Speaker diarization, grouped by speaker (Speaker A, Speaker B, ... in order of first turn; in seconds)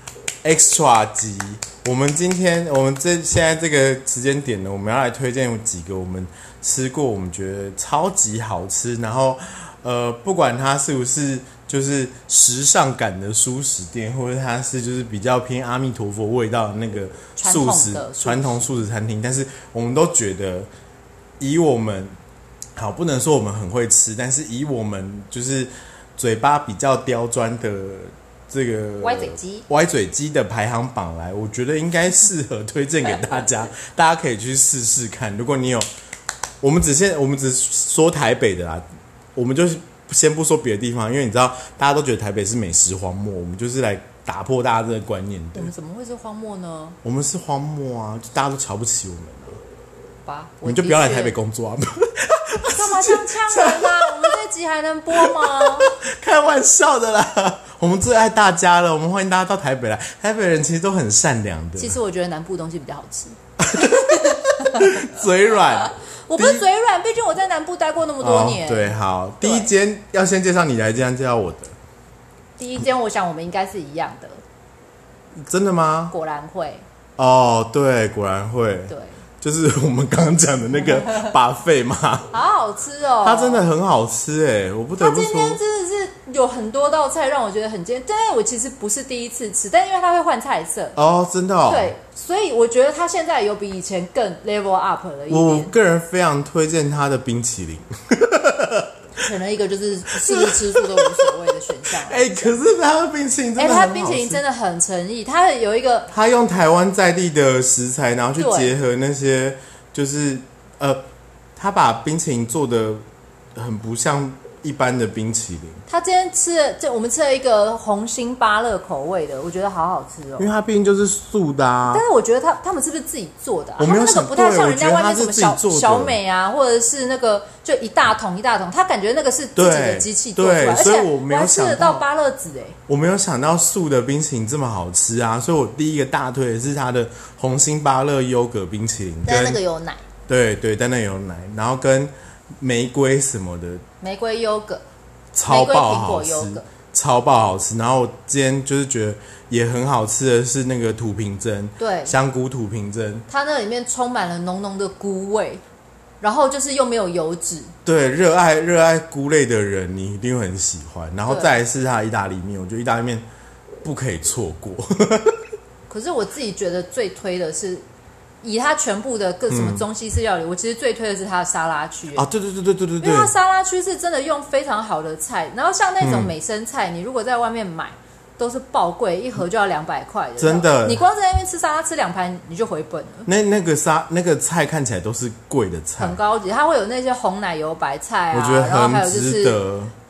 Speaker A: 0.4-20.7, 21.4-22.1, 22.8-35.9, 36.6-38.8, 39.4-45.7, 47.0-49.6, 50.6-54.4, 55.1-62.0, 63.6-66.7, 68.2-71.8, 75.4-76.1, 77.2-82.3, 83.2-85.6, 91.0-91.9, 95.3-98.9, 100.2-101.3, 102.0-104.4, 106.1-111.0, 111.6-113.0, 113.6-115.8, 120.4-122.0, 123.8-126.2, 129.6-132.0, 132.9-139.6, 140.3-143.8, 145.3-153.3, 157.8-163.2, 163.8-165.4, 169.5-169.8, 172.2-173.3, 176.0-176.3, 180.4-181.0, 183.3-186.2, 188.3-189.9
Speaker B: 17.4-18.7, 29.0-29.7, 45.5-47.0, 50.2-51.4, 52.7-55.9, 61.8-65.0, 65.5-69.7, 72.6-74.4, 76.1-76.8, 78.9-79.2, 82.3-83.7, 85.0-91.0, 91.7-95.7, 99.2-102.6, 103.6-106.1, 108.4-108.7, 115.9-120.5, 121.9-132.8, 139.3-140.1, 144.0-144.8, 145.5-146.7, 151.8-152.2, 153.3-155.6, 156.2-157.8, 161.3-161.5, 165.9-167.9, 168.4-172.3, 173.0-183.3, 186.0-189.6